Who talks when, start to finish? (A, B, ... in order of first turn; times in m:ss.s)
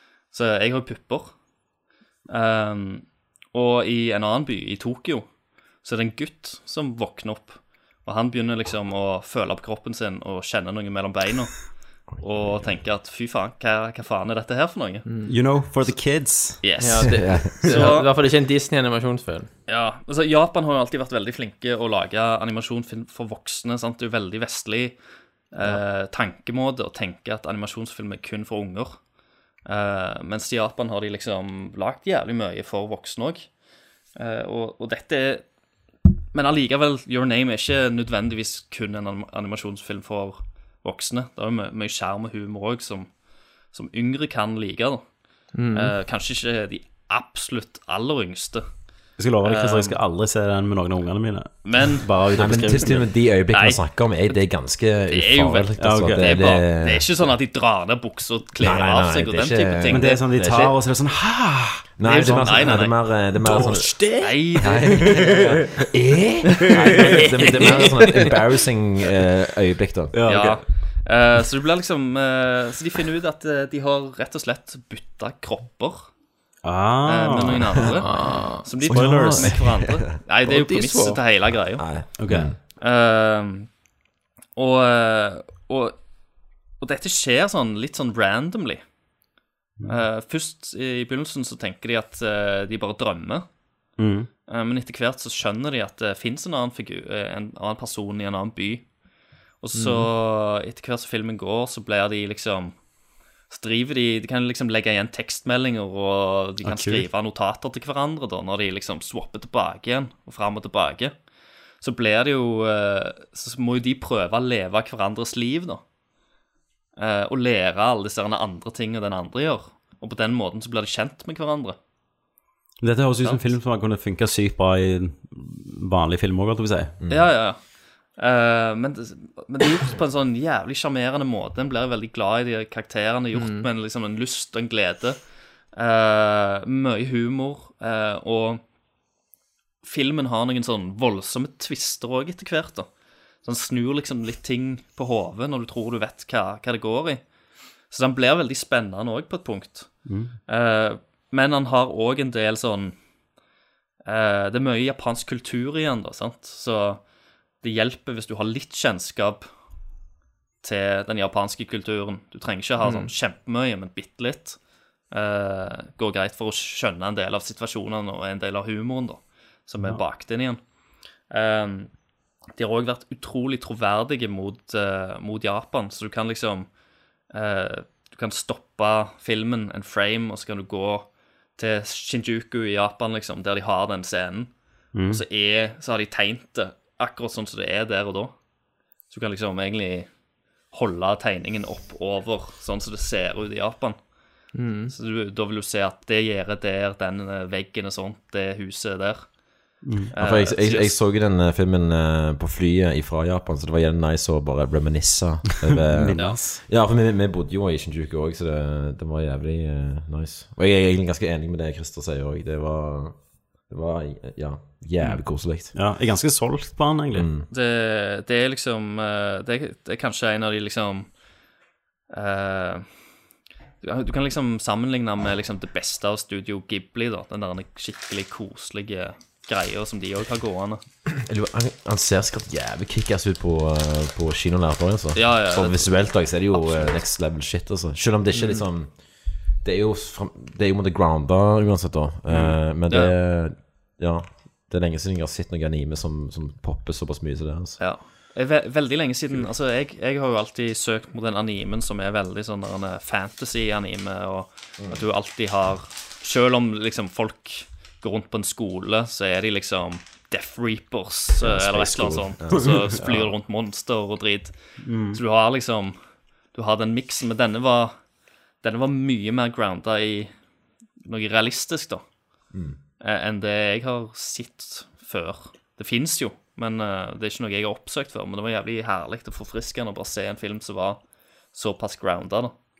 0:00.3-0:01.3 A
0:02.3-0:05.2 A
0:05.8-0:15.0 A
0:12.1-0:12.8 B
0:15.0-0:15.3 C
0:15.3-0:16.6 D
0:16.6-0:18.1 A
0:16.8-0:19.5 C
0:17.0-0:17.6 B
0:19.7-0:25.0 A
0:25.5-0:29.0 A
0:29.6-0:33.5 A
0:34.2-0:35.4 A
0:36.3-0:43.1 A
0:43.7-0:45.0 A
0:45.5-0:45.9 C
0:45.7-0:48.6 A
0:49.2-0:53.0 D
0:49.4-0:50.0 A
0:51.6-0:52.1 A
0:52.4-0:57.0 B
0:53.5-0:54.4 A
0:55.1-1:00.7 A
0:55.8-0:56.4 D
0:58.6-1:00.7 B
0:59.9-1:01.9 D
1:02.0-1:04.0 B
1:02.0-1:03.0 A
1:03.5-1:05.6 A
1:04.6-1:10.1 B
1:05.0-1:05.4 D
1:07.1-1:08.0 A
1:10.1-1:10.6 D
1:10.2-1:16.1 A
1:16.6-1:17.6 D
1:17.1-1:22.1 A
1:18.0-1:18.6 C
1:18.8-1:20.0 B
1:18.9-1:19.5 D
1:20.4-1:21.2 C
1:21.8-1:22.6 B
1:22.2-1:22.5 D
1:22.8-1:23.7 A
1:24.6-1:26.0 A
1:26.8-1:28.8 A
1:29.8-1:33.4 A
1:34.0-1:34.3 D
1:34.5-1:38.9 A
1:39.6-1:42.8 A
1:43.5-1:51.1 A
1:46.6-1:47.0 D
1:51.8-1:55.8 A
1:57.0-2:01.8 A
2:02.8-2:06.9 D
2:07.0-2:07.4 B
2:07.1-2:07.6 A
2:08.1-2:15.2 A
2:13.3-2:13.6 C
2:15.7-2:18.6 A
2:19.8-2:22.9 A
2:23.4-2:27.2 A
2:27.9-2:32.9 A
2:30.0-2:30.3 D
2:34.0-2:37.0 A
2:37.6-2:39.5 A
2:40.6-2:50.6 A
2:42.8-2:43.1 C
2:51.3-2:51.9 A
2:52.5-2:56.7 A
2:57.3-3:04.5 A
3:04.9-3:05.2 D
3:05.1-3:08.3 A
3:09.1-3:10.1 A
3:10.7-3:14.0 A
3:14.5-3:14.9 C
3:14.9-3:19.3 A
3:19.8-3:20.1 D
3:20.1-3:21.0 A
3:20.2-3:35.7 B
3:25.9-3:26.6 D
3:35.7-3:37.3 D
3:37.1-3:37.5 B
3:37.5-3:41.2 A
3:42.1-3:42.9 A
3:43.8-3:50.8 A
3:51.2-4:07.8 B
3:55.2-3:56.9 A
3:58.3-3:58.6 C
4:07.8-4:26.0 A
4:21.4-4:23.2 B
4:23.0-4:23.3 C
4:24.8-4:25.2 D
4:26.5-4:28.0 A
4:28.6-4:30.3 A
4:31.0-4:32.0 A
4:32.5-4:32.8 B
4:33.0-4:42.5 A